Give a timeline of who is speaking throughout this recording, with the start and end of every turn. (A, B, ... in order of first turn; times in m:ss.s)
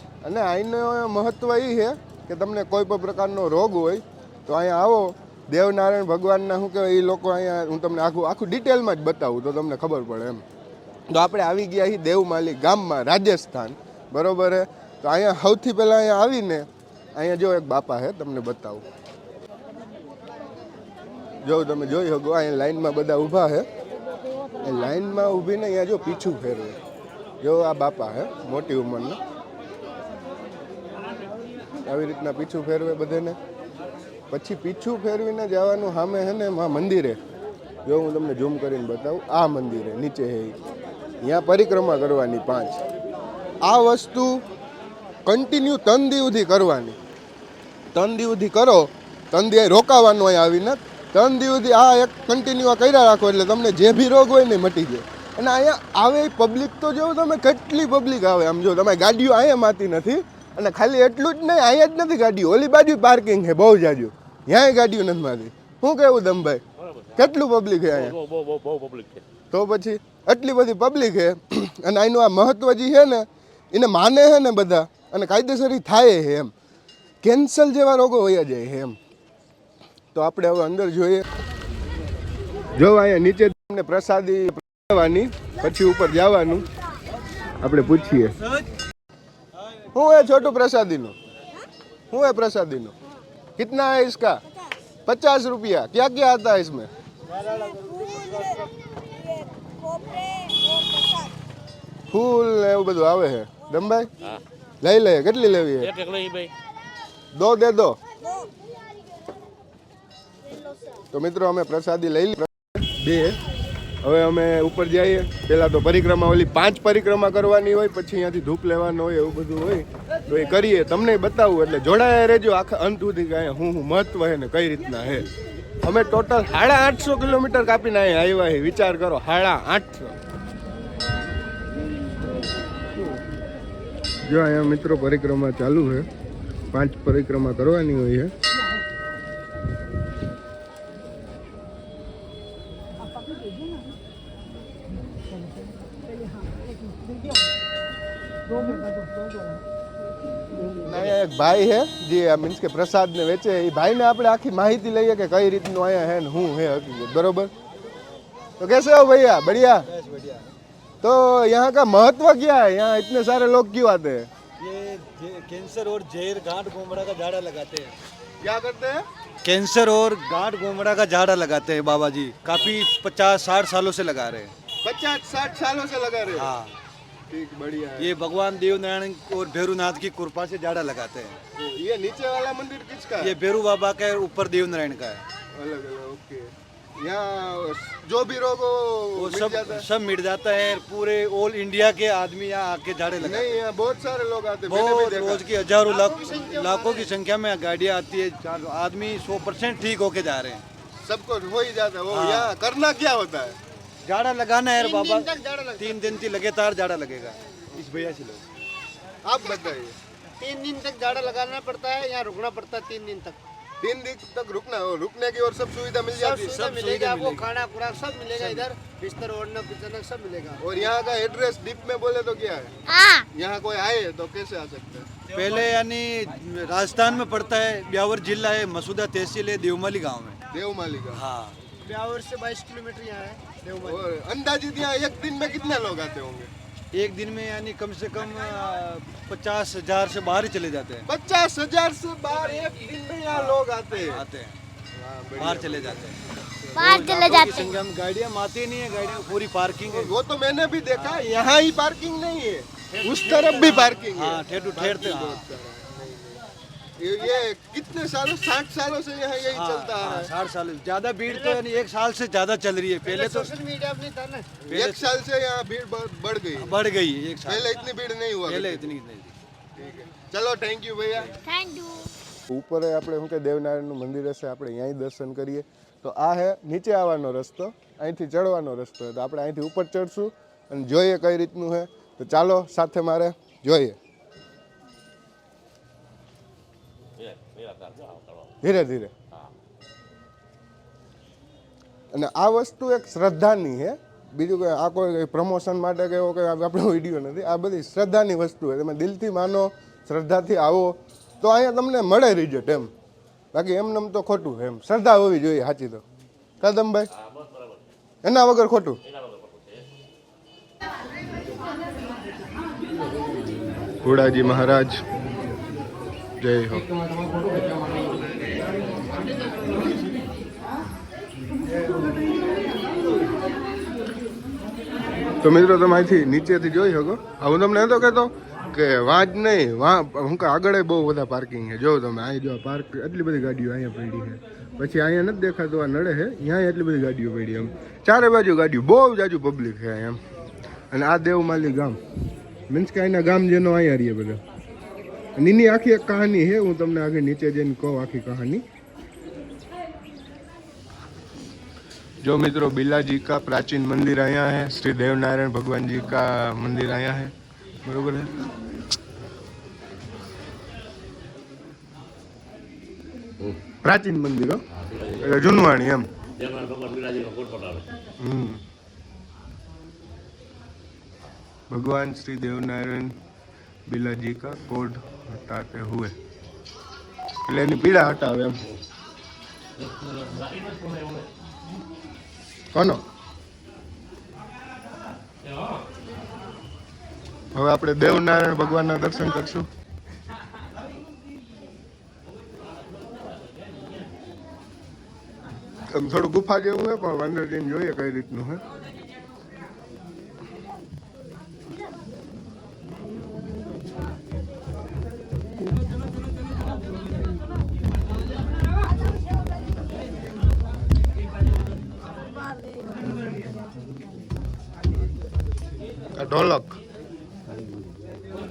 0:00.2-0:10.4 A
0:11.1-0:18.8 A
0:21.4-0:23.7 A
0:24.6-0:26.8 A
0:27.4-0:29.2 A
0:31.8-0:33.4 A
0:34.3-0:37.2 A
0:37.9-0:40.6 A
0:41.2-0:42.8 A
0:43.6-0:44.4 A
0:45.3-0:47.0 A
0:47.9-1:06.6 A
1:07.2-1:08.2 A
1:07.9-1:09.2 B
1:09.5-1:16.5 A
1:17.2-1:19.0 A
1:20.1-1:21.2 A
1:22.8-1:26.7 A
1:27.6-1:28.4 A
1:29.9-1:31.2 A
1:32.1-1:33.0 A
1:33.6-1:34.4 A
1:35.1-1:36.9 A
1:37.6-1:38.6 C
1:39.9-1:40.6 D
1:42.1-1:44.1 A
1:44.8-1:46.0 A
1:45.9-1:46.5 B
1:47.3-1:48.0 A
1:51.1-1:53.4 A
1:54.0-2:05.3 A
2:05.8-2:10.2 A
2:14.3-2:16.1 A
2:16.7-2:18.3 A
2:30.8-2:37.5 A
2:38.6-2:39.9 A
2:39.9-2:40.5 C
2:41.0-2:44.3 A
2:44.6-2:48.0 C
2:48.4-2:49.0 A
2:49.4-2:54.5 C
2:54.8-2:56.5 A
2:56.3-2:56.7 C
2:57.3-2:58.1 A
2:58.0-3:01.4 C
3:01.6-3:03.4 A
3:03.2-3:05.2 C
3:05.5-3:09.9 A
3:09.2-3:13.6 C
3:13.2-3:15.4 A
3:14.7-3:20.6 C
3:15.8-3:17.1 E
3:21.0-3:23.6 A
3:22.1-3:22.5 C
3:24.0-3:28.4 C
3:24.8-3:26.2 E
3:29.2-3:30.0 A
3:30.4-3:33.4 E
3:33.8-3:36.6 A
3:36.1-3:40.6 E
3:36.5-3:37.5 C
3:38.4-3:38.7 C
3:40.6-3:42.7 A
3:42.9-3:43.2 D
3:43.3-3:45.1 A
3:45.3-3:50.4 C
3:50.5-3:51.2 A
3:51.1-3:51.6 C
3:51.8-3:54.0 E
3:53.8-3:56.5 A
3:56.9-4:01.0 C
4:01.1-4:04.2 A
4:03.3-4:04.6 C
4:04.9-4:06.9 A
4:05.4-4:06.2 C
4:06.8-4:07.8 D
4:06.8-4:10.1 C
4:09.9-4:16.2 A
4:10.9-4:11.3 C
4:13.0-4:15.5 C
4:17.0-4:20.3 A
4:19.5-4:23.6 C
4:21.3-4:21.6 E
4:23.0-4:24.6 E
4:24.6-4:25.0 C
4:24.7-4:26.8 A
4:26.6-4:27.8 C
4:27.4-4:28.9 A
4:28.5-4:29.3 C
4:29.8-4:31.4 A
4:31.4-4:32.0 D
4:32.5-4:44.0 A
4:47.2-4:48.4 B
4:48.6-4:49.1 A
4:52.1-5:02.9 A
5:03.5-5:06.0 A
5:06.6-5:07.1 A
5:08.2-5:09.0 A
5:14.0-5:15.0 A
5:16.4-5:16.9 A
5:25.4-5:40.2 A
5:40.9-5:42.0 A
5:42.7-5:44.4 A
5:45.4-5:48.6 A
5:52.2-5:57.3 A
5:57.8-5:58.5 A
6:03.8-6:04.6 A
6:05.2-6:06.1 A
6:06.4-6:07.9 B
6:08.2-6:08.6 A
6:11.7-6:13.2 A
6:13.9-6:16.2 A
6:17.4-6:18.6 A
6:20.0-6:21.0 B
6:22.7-6:23.0 A
6:27.5-6:29.7 A
6:35.9-6:38.6 A
6:56.2-6:56.8 A